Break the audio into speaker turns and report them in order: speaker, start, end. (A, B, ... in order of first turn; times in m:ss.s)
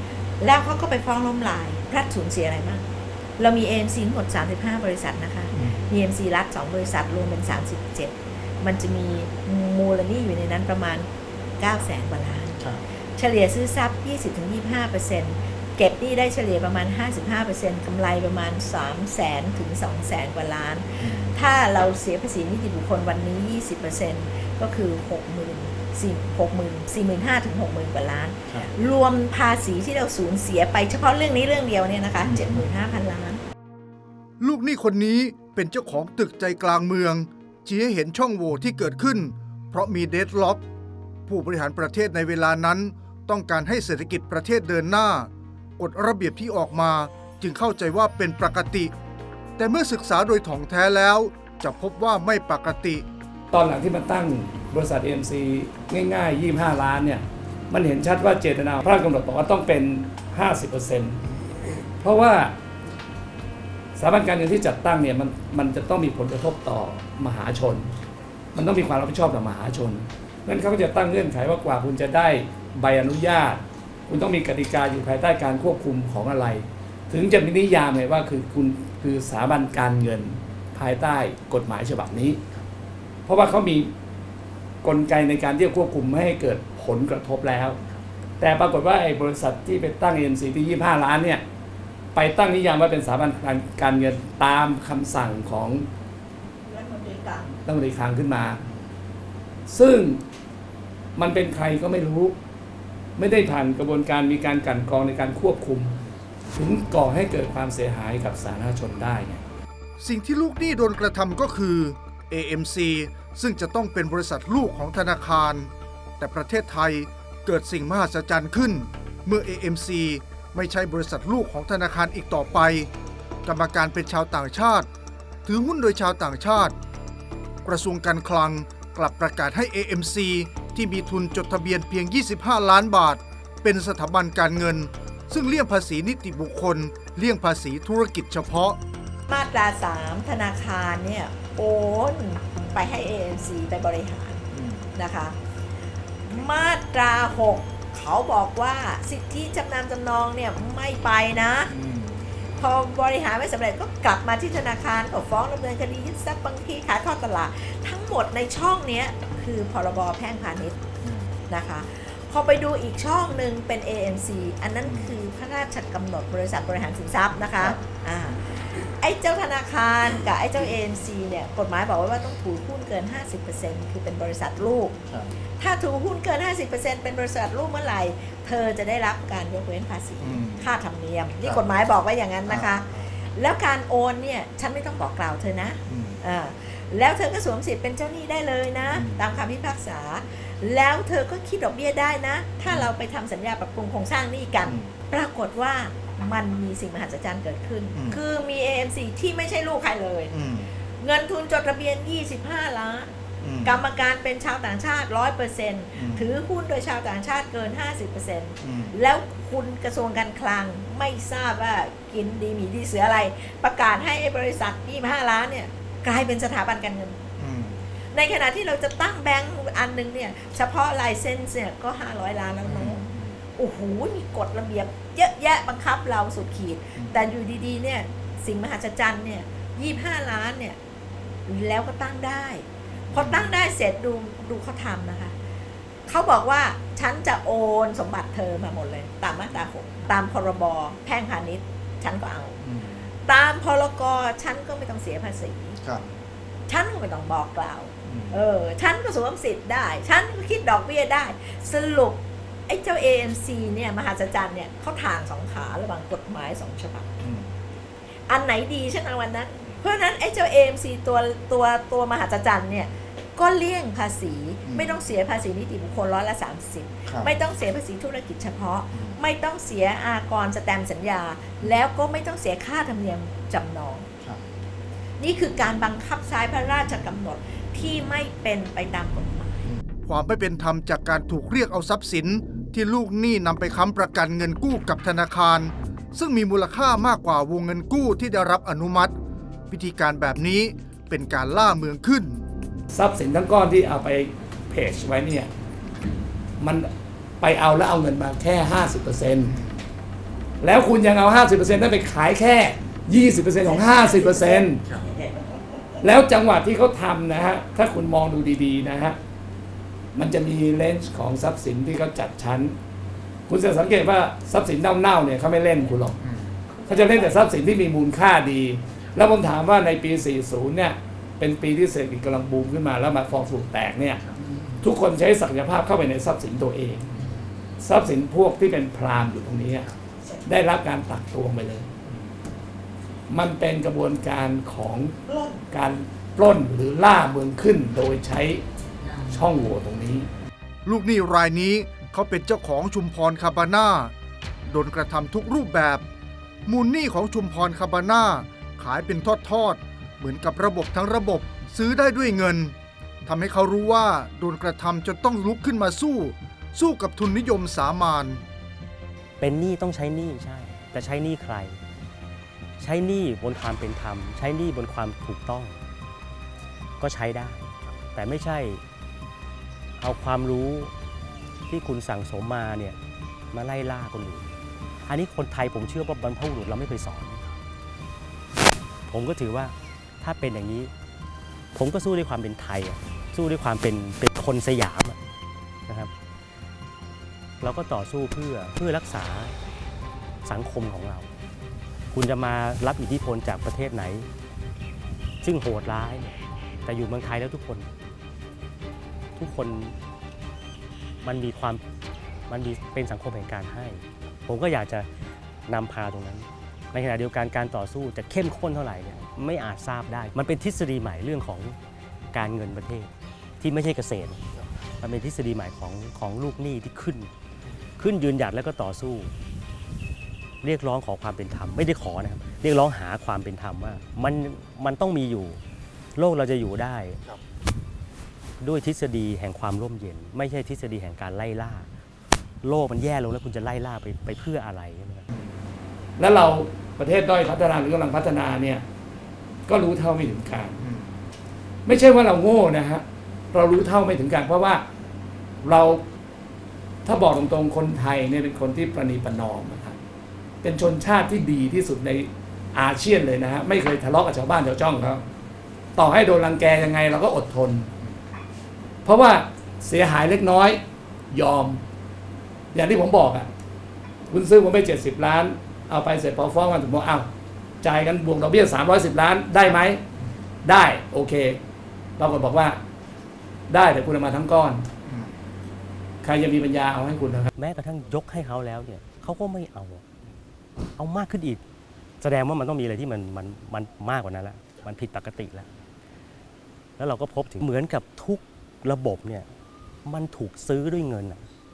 0:00.4-0:33.4 A
0:05.5-0:05.9 B
0:21.0-0:21.4 B
0:32.2-0:32.6 B
0:34.4-0:40.6 B
0:41.3-0:48.9 B
0:49.6-0:53.0 B
0:53.5-1:01.2 C
1:02.0-1:02.5 C
1:04.0-1:07.9 C
1:08.5-1:22.4 C
1:23.2-1:23.9 C
1:24.8-1:27.8 C
1:28.4-1:31.4 C
1:32.1-1:35.9 C
1:36.6-1:37.5 A
1:37.6-1:38.6 C
1:39.7-1:40.2 C
1:41.2-1:42.4 C
1:43.2-1:46.0 C
1:46.5-1:49.4 C
1:50.0-2:02.9 B
2:03.4-2:04.9 B
2:05.4-2:06.7 B
2:07.6-2:18.8 B
2:19.3-2:25.4 A
2:24.5-2:24.9 B
2:26.2-2:31.7 A
2:31.7-2:32.3 B
2:32.6-2:40.8 A
2:41.0-2:41.3 B
2:41.5-2:55.0 A
2:44.8-2:45.2 B
2:55.6-3:20.3 A
3:00.2-3:00.6 B
3:02.5-3:03.1 B
3:05.9-3:06.2 B
3:08.9-3:09.2 B
3:14.6-3:14.9 B
3:20.3-3:20.7 B
3:21.0-3:37.3 A
3:23.4-3:23.8 B
3:26.0-3:26.2 B
3:28.6-3:28.9 B
3:37.4-3:37.8 B
3:38.1-3:50.8 A
3:42.6-3:43.4 B
3:51.5-3:55.3 A
3:53.1-3:53.5 B
3:56.1-4:02.6 A
4:02.6-4:03.0 B
4:03.2-4:05.8 A
4:05.8-4:06.2 B
4:06.7-4:17.1 A
4:08.0-4:08.4 B
4:17.2-4:17.5 B
4:18.3-4:34.1 A
4:24.7-4:25.0 B
4:27.1-4:27.3 B
4:28.9-4:29.2 B
4:35.2-4:39.7 A
4:40.0-4:49.1 B
4:49.7-4:52.4 B
4:52.9-4:55.5 C
4:56.6-4:56.9 C
4:57.4-4:59.6 C
4:59.5-4:59.8 B
5:00.6-5:04.9 C
5:06.0-5:09.2 C
5:10.1-5:12.8 C
5:13.5-5:16.2 C
5:16.9-5:24.2 C
5:24.4-5:24.7 B
5:24.8-5:27.2 C
5:27.8-5:29.9 C
5:30.4-5:31.9 C
5:33.3-5:38.6 C
5:39.2-5:40.3 C
5:40.8-5:44.1 B
5:44.6-5:46.0 B
5:46.6-5:58.4 B
5:59.4-6:01.8 D
6:02.8-6:05.8 D
6:07.0-6:08.8 D
6:10.0-6:10.9 D
6:11.7-6:13.0 D
6:13.5-6:14.5 D
6:15.1-6:17.4 D
6:19.1-6:20.9 D
6:21.8-6:25.2 D
6:27.6-6:29.5 D
6:30.4-6:31.3 D
6:32.1-6:34.3 D
6:35.4-6:36.4 D
6:36.9-6:37.9 D
6:39.4-6:39.9 D
6:41.2-6:41.8 D
6:42.5-6:45.1 D
6:45.7-6:51.8 D
6:52.3-6:54.4 D
6:55.0-6:57.3 D
6:58.0-6:59.3 D
7:00.6-7:05.6 D
7:06.2-7:07.2 D
7:08.6-7:11.9 D
7:12.6-7:15.3 D
7:16.2-7:18.8 C
7:19.7-7:20.9 C
7:20.8-7:21.1 B
7:21.9-7:24.8 C
7:25.6-7:26.0 C
7:27.0-7:30.0 C
7:30.6-7:35.2 C
7:36.0-7:37.9 C
7:39.0-7:41.8 C
7:42.7-7:43.5 C
7:44.3-7:47.3 C
7:47.8-7:50.0 C
7:50.6-7:51.6 C
7:52.2-7:52.8 C
7:53.7-7:54.9 C
7:55.0-7:55.3 B
7:56.2-7:57.5 C
7:57.6-8:00.0 D
8:01.0-8:01.6 D
8:02.2-8:05.7 D
8:07.0-8:09.5 D
8:10.0-8:11.4 D